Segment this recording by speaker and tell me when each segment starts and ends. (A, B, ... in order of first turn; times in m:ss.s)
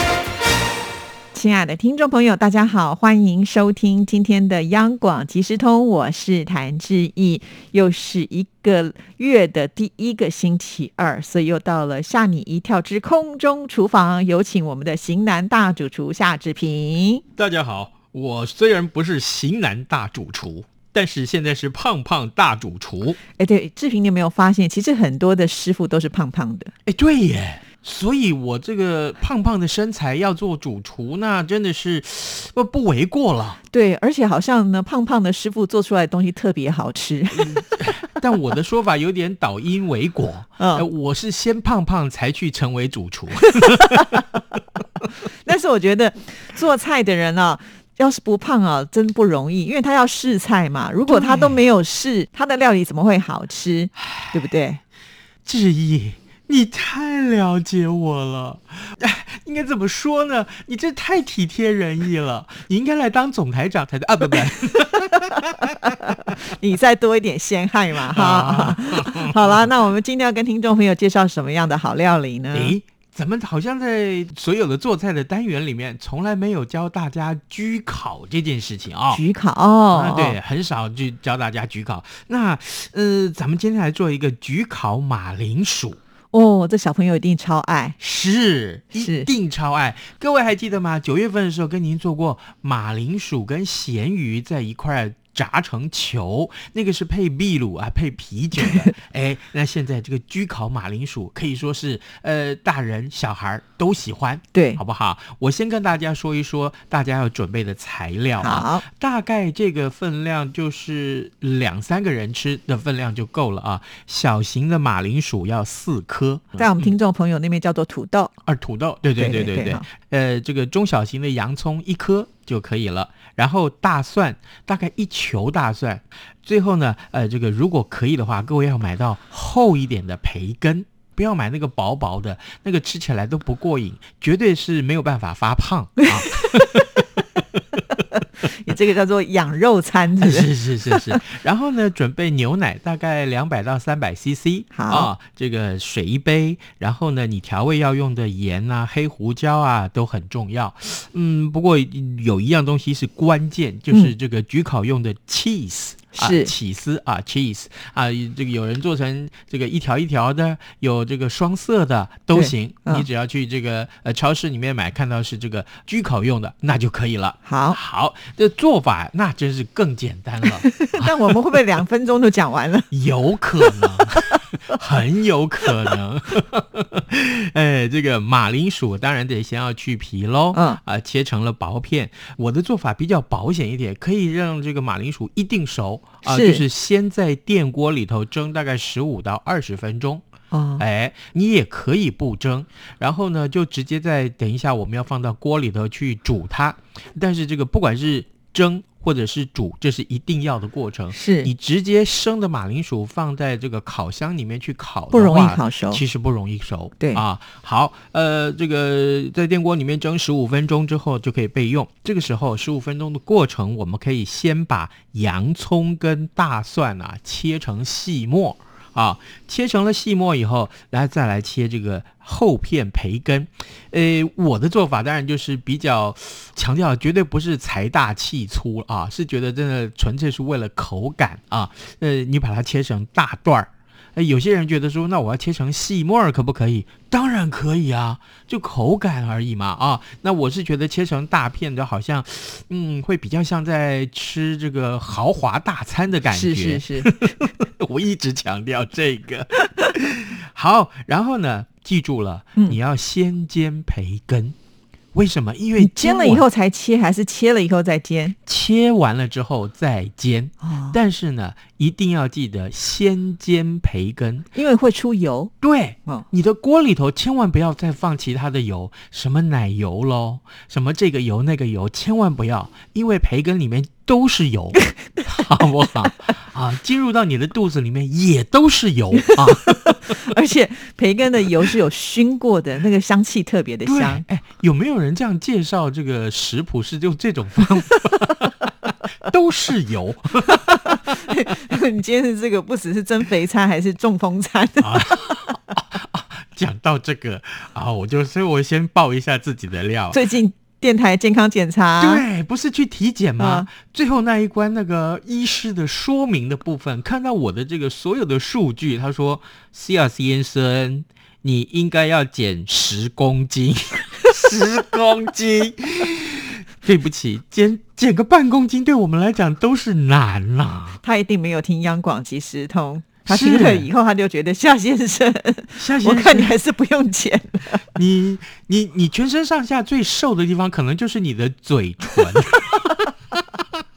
0:01.3-0:17.2 A
0:17.4-0:23.2 B
0:23.4-0:26.7 A
0:26.9-0:33.6 B
0:33.7-0:37.7 A
0:37.4-0:44.2 B
0:40.6-0:40.9 A
0:45.4-0:54.8 A
0:51.1-0:51.6 B
0:54.1-0:54.4 B
0:55.4-1:06.3 B
1:06.2-1:12.8 A
1:08.1-1:09.7 B
1:12.5-1:19.2 B
1:19.1-1:20.4 A
1:19.9-1:26.0 B
1:26.3-1:28.0 A
1:28.0-1:56.9 B
1:29.0-1:29.3 A
1:44.5-1:44.8 A
1:48.4-1:48.8 A
1:56.6-1:58.3 A
1:58.4-2:17.4 B
1:59.2-1:59.8 A
2:18.4-2:21.1 A
2:20.2-2:51.3 B
2:24.7-2:25.1 A
2:36.1-2:36.5 A
2:42.3-2:43.1 A
2:47.4-2:47.8 A
2:50.7-2:52.9 A
2:52.9-3:10.2 B
3:00.5-3:00.8 A
3:06.2-3:06.6 A
3:10.5-3:10.8 A
3:10.8-4:14.6 B
3:21.1-3:21.5 A
3:25.1-3:26.0 A
4:06.3-4:07.1 A
4:15.1-4:16.4 B
4:15.8-4:18.4 A
4:18.5-4:24.5 B
4:20.6-4:21.0 A
4:24.6-4:25.5 A
4:25.6-4:40.2 B
4:40.2-4:44.2 A
4:43.9-4:51.2 B
4:50.6-4:55.5 A
4:54.8-5:00.2 B
5:00.1-5:02.2 A
5:02.0-5:21.0 B
5:03.4-5:03.7 A
5:21.0-5:27.8 A
5:23.3-5:23.9 B
5:25.8-5:26.5 B
5:28.0-5:33.7 B